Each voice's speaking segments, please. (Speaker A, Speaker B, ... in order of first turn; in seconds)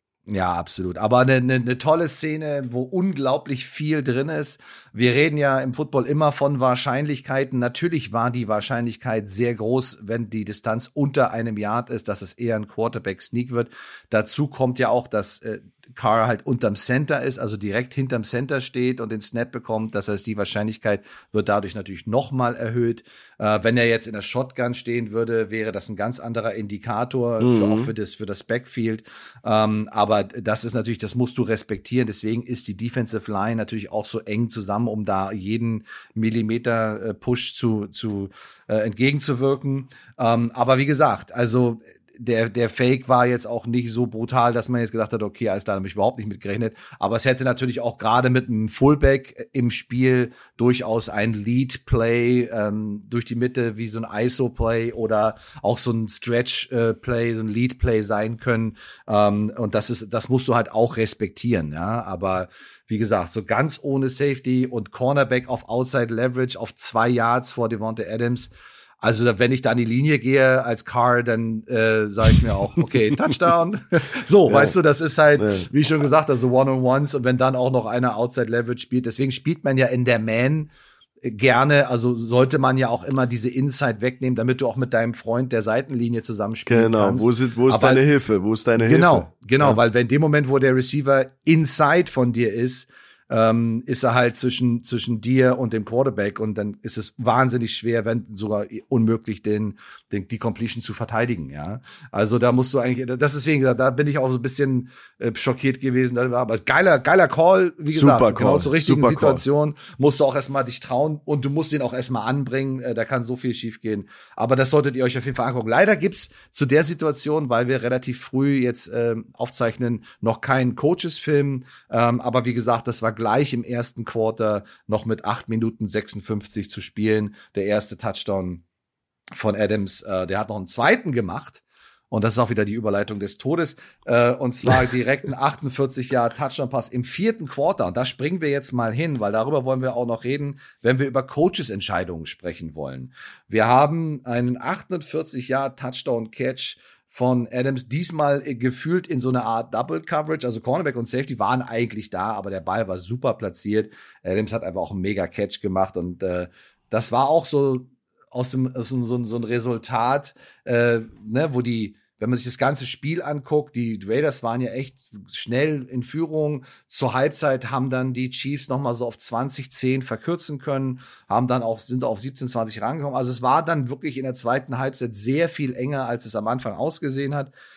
Speaker A: 0.3-80.7, 81.2-88.0, 88.8-128.6, 129.4-177.5
Speaker B: 27.4-27.9, 75.4-75.7, 86.7-89.8, 107.9-109.4